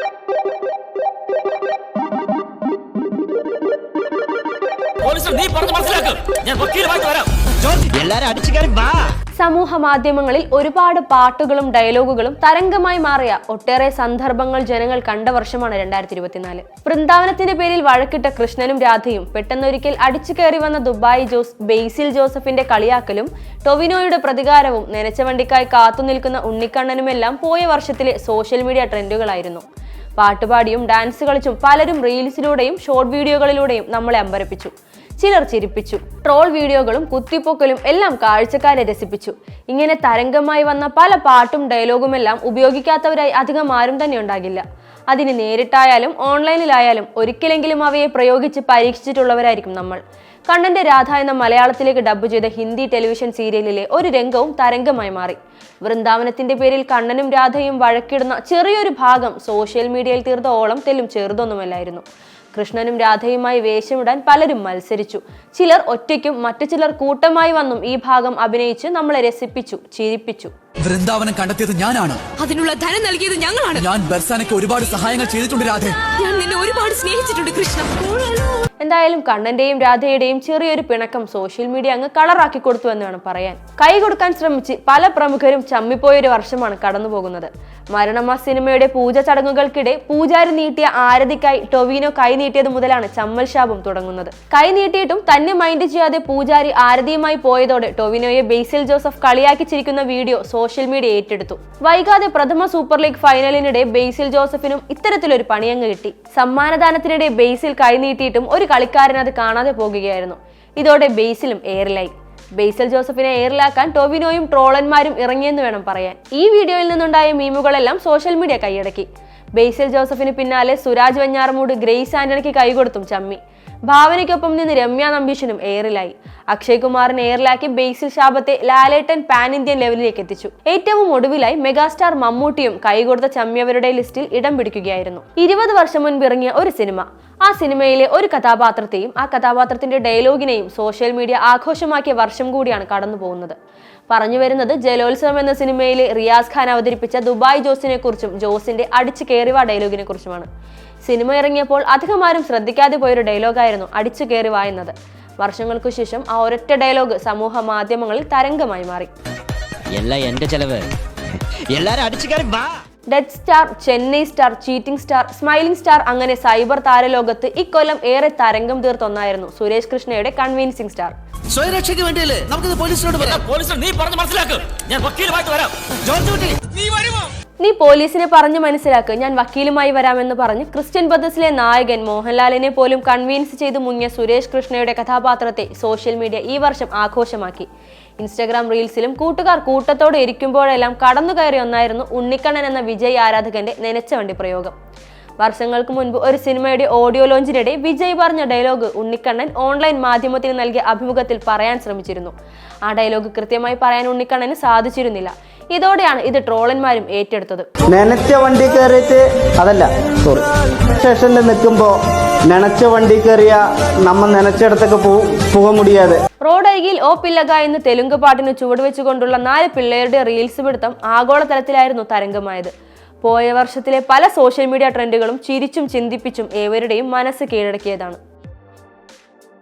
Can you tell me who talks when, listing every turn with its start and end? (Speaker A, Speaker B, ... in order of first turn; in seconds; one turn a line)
Speaker A: 5.0-7.9
Speaker B: 7.9-9.1
Speaker C: 9.4-29.6
Speaker C: 30.2-62.0
Speaker C: 62.5-70.5
Speaker D: 70.8-72.3
Speaker E: 72.4-73.9
Speaker D: 73.8-76.0
Speaker E: 76.1-78.6
Speaker C: 78.8-143.6
Speaker C: 144.1-150.5
Speaker C: 151.0-159.1
Speaker B: 159.9-160.9
Speaker B: 161.7-162.7
Speaker C: 163.1-171.1
Speaker F: 171.5-173.4
Speaker A: 173.2-176.1
Speaker F: 176.1-176.5
Speaker A: 176.7-177.3
Speaker C: 177.6-187.7
Speaker C: 188.2-194.8
Speaker C: 195.4-202.3
Speaker C: 202.9-207.7
Speaker G: 207.9-212.0
Speaker G: 212.5-216.2
Speaker C: 216.4-228.2